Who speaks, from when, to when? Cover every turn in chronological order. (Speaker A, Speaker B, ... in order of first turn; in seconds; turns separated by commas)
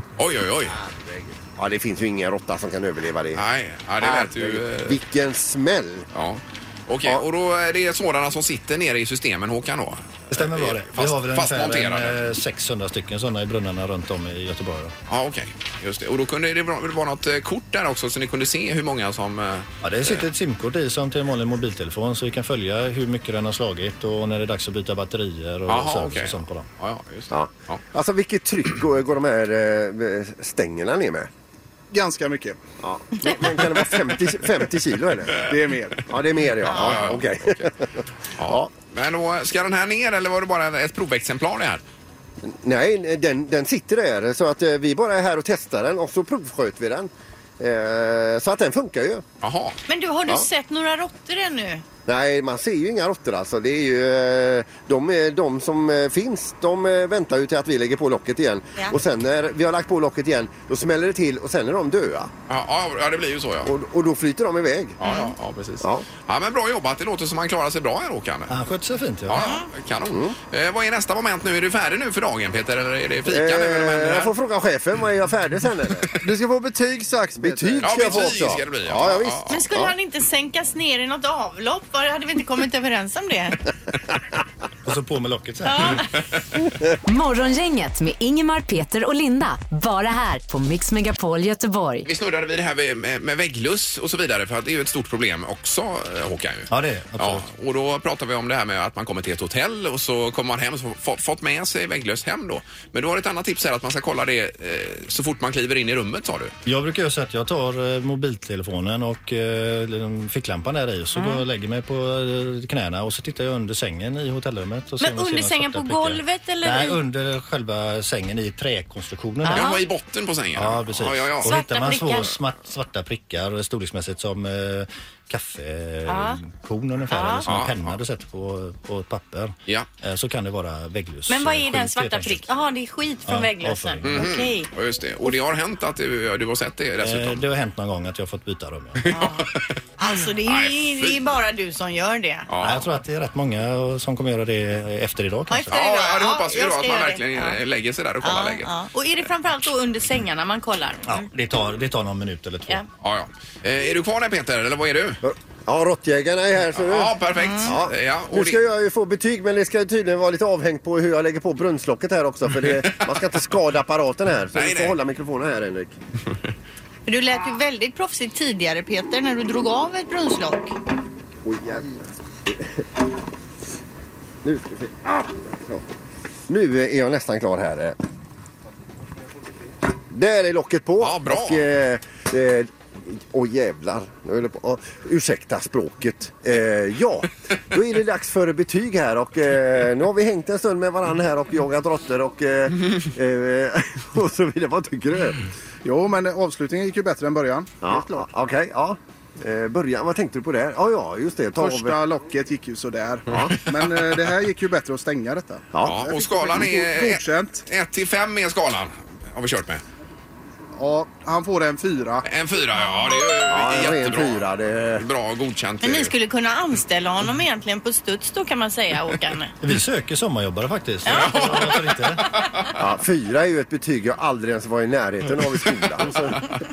Speaker A: 0.2-0.8, Speaker B: 0.7-3.4, Speaker A: 3.4-5.0, Speaker B: 4.0-6.1, Speaker A: 6.1-12.2, Speaker C: 10.3-14.9, Speaker A: 15.1-20.3, Speaker C: 19.8-26.7, Speaker A: 25.7-27.8, Speaker B: 27.3-31.3, Speaker D: 31.9-32.6, Speaker B: 32.8-35.5, Speaker D: 35.4-36.0, Speaker B: 36.1-38.7, Speaker A: 36.6-37.6, Speaker E: 36.7-37.1, Speaker A: 38.4-41.8, Speaker B: 42.4-49.2, Speaker A: 49.4-49.8, Speaker E: 49.9-51.8, Speaker B: 52.1-62.3, Speaker A: 62.5-63.7, Speaker B: 63.6-65.0, Speaker A: 65.0-68.5, Speaker E: 65.0-65.3, Speaker B: 65.8-66.1, Speaker C: 68.5-69.4, Speaker A: 69.3-74.3, Speaker E: 69.3-69.7, Speaker B: 70.1-70.4, Speaker B: 73.3-76.2, Speaker D: 76.2-77.8, Speaker B: 77.4-79.9, Speaker A: 77.8-79.6, Speaker E: 79.5-83.6, Speaker C: 84.9-86.0, Speaker E: 85.7-86.1, Speaker F: 87.1-92.1, Speaker A: 92.0-106.5, Speaker C: 96.7-97.5, Speaker C: 106.7-119.7, Speaker E: 111.2-111.4, Speaker E: 115.0-117.0, Speaker E: 119.4-119.8, Speaker A: 119.5-121.6, Speaker C: 120.6-132.4, Speaker E: 121.4-122.3, Speaker E: 126.1-126.4, Speaker E: 127.1-127.5, Speaker A: 127.5-128.0, Speaker E: 131.3-134.7, Speaker C: 133.3-134.3, Speaker A: 134.1-137.4, Speaker C: 137.0-139.1, Speaker A: 139.0-139.7, Speaker E: 139.1-142.5, Speaker A: 140.4-141.3, Speaker A: 142.5-142.9, Speaker C: 142.6-145.7, Speaker E: 145.5-147.6, Speaker A: 145.7-148.7, Speaker E: 148.2-151.2, Speaker C: 151.1-152.8, Speaker A: 153.0-155.2, Speaker B: 155.2-165.9, Speaker A: 156.7-158.6, Speaker E: 157.3-157.7, Speaker A: 164.5-165.0, Speaker E: 167.1-170.8, Speaker B: 171.4-172.6, Speaker B: 174.4-175.8, Speaker B: 176.5-178.0, Speaker B: 180.1-195.4, Speaker A: 181.0-181.7, Speaker D: 195.8-198.3, Speaker B: 197.8-202.0, Speaker D: 201.6-207.6, Speaker B: 203.3-203.6, Speaker B: 205.7-206.0, Speaker A: 205.8-209.8, Speaker D: 210.8-212.2, Speaker A: 212.2-216.1, Speaker E: 212.8-213.1, Speaker B: 213.5-215.1, Speaker E: 215.8-219.6, Speaker C: 219.6-222.3, Speaker E: 221.1-221.8, Speaker A: 221.1-222.8, Speaker B: 222.8-226.5, Speaker A: 226.0-226.6